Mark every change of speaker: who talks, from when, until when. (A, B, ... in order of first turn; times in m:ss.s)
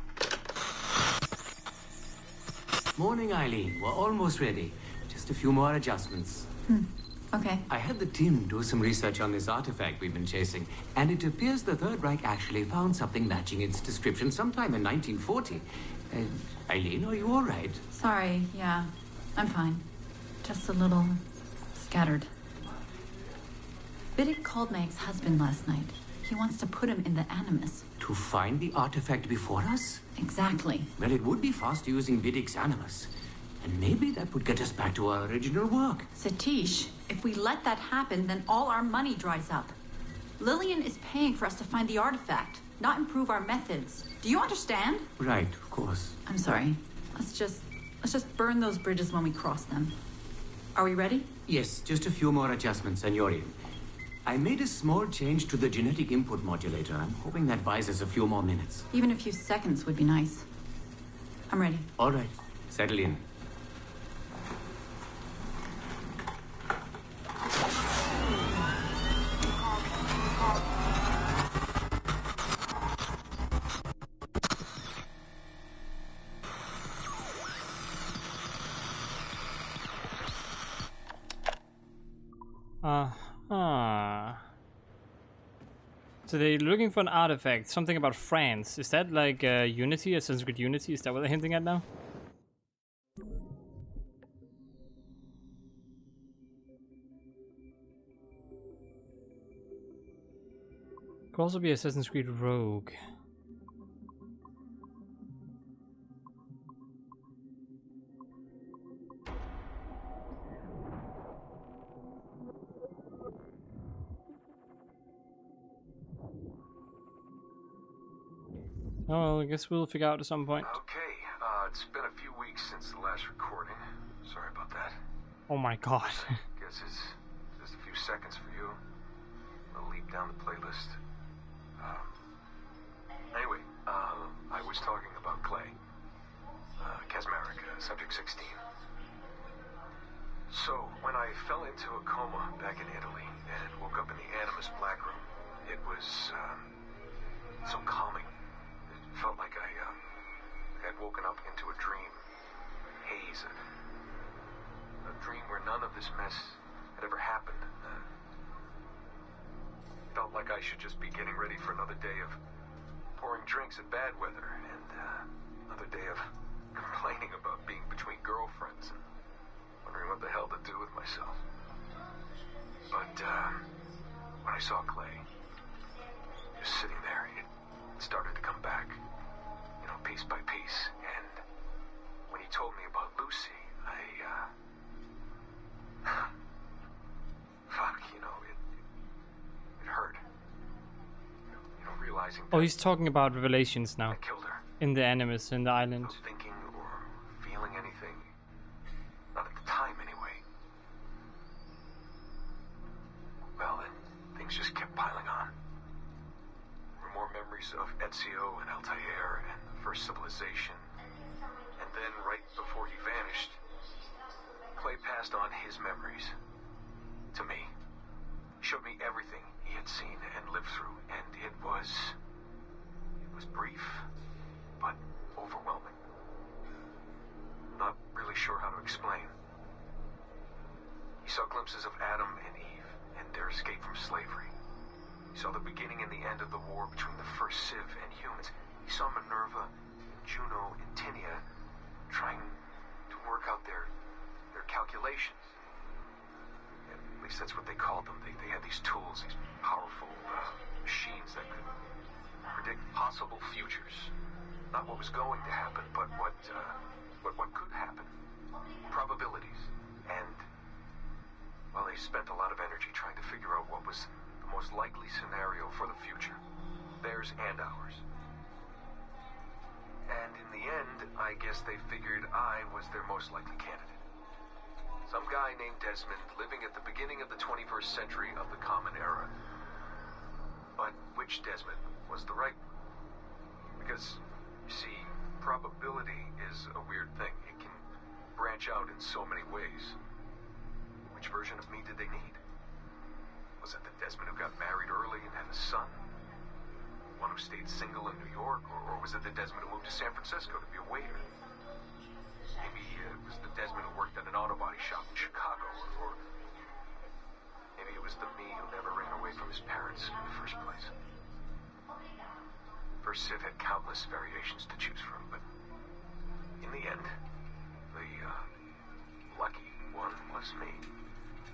0:03.0-0:06.5 A
0:06.7-0:07.6 B
0:07.7-0:17.8 A
0:17.9-0:19.9 B
0:20.4-0:21.2 B
0:21.8-0:22.3 B
0:24.2-0:27.9 B
0:28.0-0:30.0 A
0:30.2-0:30.9 B
0:31.0-0:36.1 A
0:36.2-0:39.7 B
0:40.4-0:45.1 B
0:45.2-0:46.2 A
0:46.3-0:50.0 B
0:50.8-0:51.3 B
0:51.5-0:53.6 A
0:54.2-0:58.9 A
0:58.9-1:00.5 B
1:01.5-1:01.9 B
1:02.0-1:03.2 A
1:22.8-1:24.4 C
1:26.3-1:31.8 C
1:41.3-1:43.0 C
1:59.1-2:00.8 C
2:00.6-2:05.0 D
2:05.5-2:06.4 C
2:06.0-2:08.8 D
2:09.7-2:11.0 D
2:11.8-2:12.2 D
2:13.3-2:15.8 D
2:16.8-2:18.6 D
2:20.5-2:26.7 D
2:27.6-2:28.3 D
2:28.9-2:30.0 D
2:30.8-2:32.2 D
2:33.0-2:33.6 D
2:35.0-2:38.1 D
2:40.1-2:42.4 D
2:43.2-2:49.0 D
2:49.8-2:51.4 D
2:52.9-2:53.7 D
2:54.4-2:55.2 D
2:56.6-2:57.5 D
2:58.0-2:59.0 D
2:59.8-3:01.4 D
3:02.3-3:04.5 D
3:07.7-3:08.6 D
3:09.8-3:10.2 D
3:11.5-3:12.8 D
3:12.5-3:14.2 C
3:14.1-3:14.6 D
3:14.8-3:16.2 C
3:16.0-3:18.3 D
3:19.3-3:20.4 D
3:23.6-3:25.5 D
3:27.0-3:30.8 D
3:31.8-3:33.6 D
3:34.8-3:36.4 D
3:37.3-3:37.7 D
3:38.6-3:42.2 D
3:43.2-3:44.1 D
3:44.8-3:46.0 D
3:47.7-3:49.3 D
3:51.2-3:54.5 D
3:55.3-4:01.4 D
4:02.1-4:02.6 D
4:03.1-4:03.9 D
4:04.5-4:05.6 D
4:06.9-4:11.7 D
4:12.5-4:14.1 D
4:14.7-4:18.1 D
4:18.9-4:20.4 D
4:21.7-4:26.4 D
4:27.0-4:28.0 D
4:30.1-4:34.0 D
4:35.1-4:39.3 D
4:40.8-4:42.6 D
4:43.8-4:47.8 D
4:48.4-4:50.0 D
4:51.1-4:52.4 D
4:53.6-4:56.1 D
4:57.2-5:01.3 D
5:02.6-5:06.2 D
5:07.8-5:10.9 D
5:13.0-5:15.4 D
5:16.6-5:17.2 D
5:17.9-5:18.5 D
5:19.3-5:20.8 D